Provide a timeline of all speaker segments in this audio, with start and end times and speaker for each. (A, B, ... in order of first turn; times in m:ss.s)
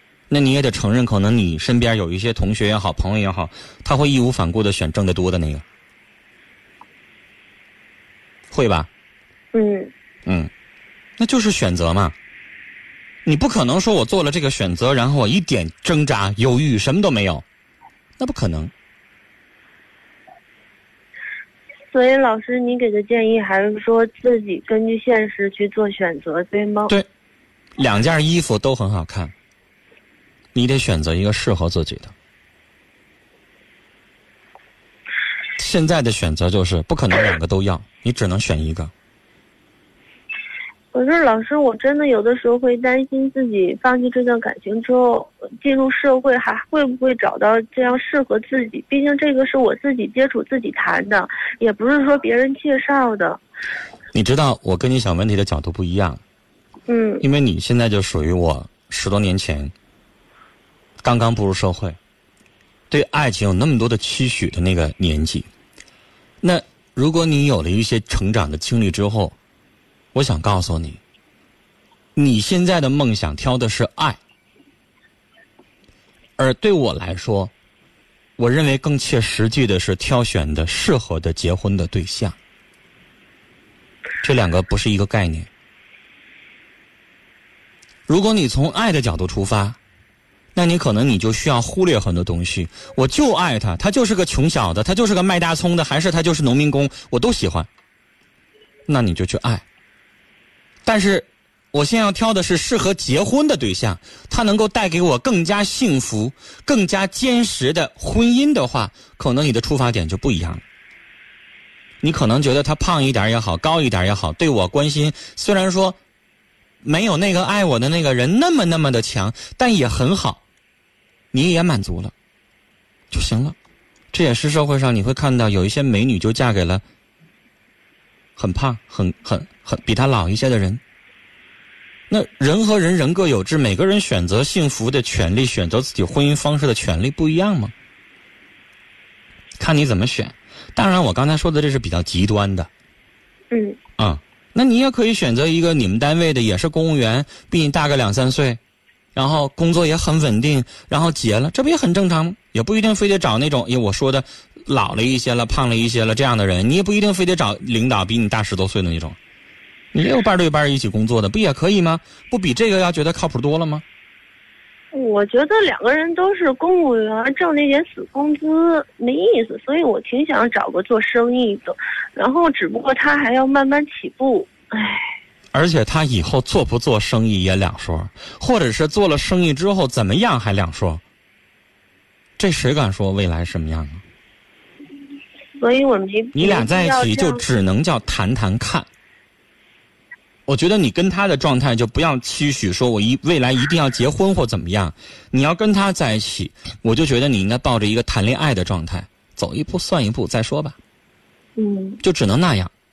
0:00.3-0:05.6 A
0:08.5-0:08.9 A
0:09.5-0:09.9 B
0:10.2-0:10.5 A
0:11.2-0:12.2 A
0:13.2-0:17.4 A
0:18.2-0:18.7 A
0:21.9-0:26.9 B
0:27.8-0:29.3 A
0:30.5-0:32.1 A
0:35.6-0:38.9 A
0:40.9-0:53.4 B
0:54.1-0:56.2 A
0:56.9-0:57.2 B
0:57.2-0:59.7 A
1:01.0-1:02.0 A
1:02.9-1:05.5 A
1:06.4-1:09.4 A
1:10.1-1:11.0 A
1:12.2-1:14.2 A
1:16.4-1:17.5 A
1:18.4-1:22.4 A
1:24.2-1:25.5 A
1:28.1-1:29.8 A
1:30.5-1:37.7 A
1:38.9-1:39.6 A
1:40.8-1:50.6 A
1:52.0-1:56.0 A
1:56.8-2:00.4 A
2:01.3-2:02.1 A
2:03.1-2:03.6 A
2:04.1-2:06.8 A
2:08.4-2:10.8 A
2:12.1-2:17.7 A
2:19.6-2:22.7 A
2:23.5-2:23.8 B
2:24.0-2:28.6 A
2:29.1-2:39.2 A
2:39.9-2:43.8 A
2:44.9-2:55.1 B
2:55.5-3:01.0 A
3:02.4-3:04.0 A
3:05.6-3:07.4 B
3:06.3-3:08.9 A
3:10.5-3:20.8 A
3:21.6-3:22.0 B
3:22.0-3:22.7 A